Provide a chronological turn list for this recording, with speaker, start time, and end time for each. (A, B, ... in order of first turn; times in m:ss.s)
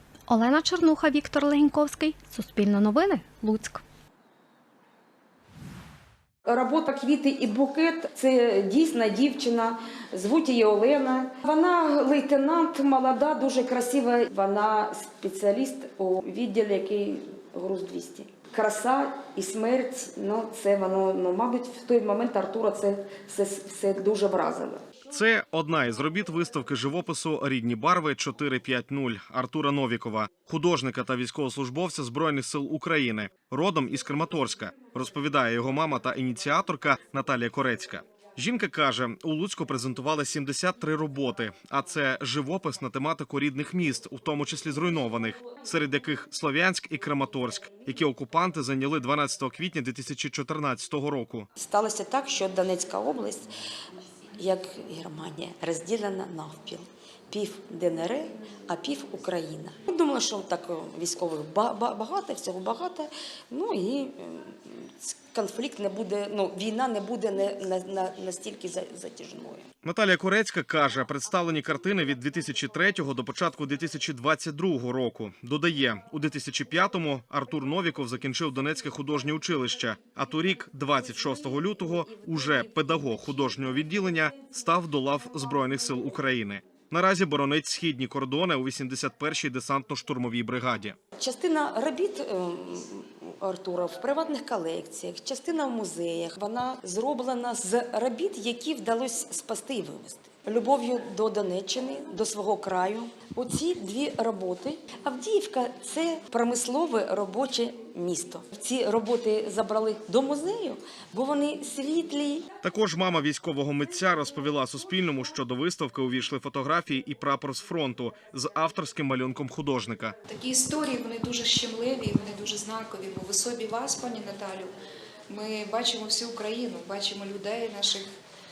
0:00.3-0:03.8 A
0:06.5-0:24.8 B
0:25.1-0:51.5 C
0:51.6-0:53.5 B
0:54.4-1:09.7 B
1:09.8-1:31.0 C
1:31.2-1:52.4 B
1:52.6-2:00.2 C
2:00.3-2:04.7 D
2:05.3-2:08.1 D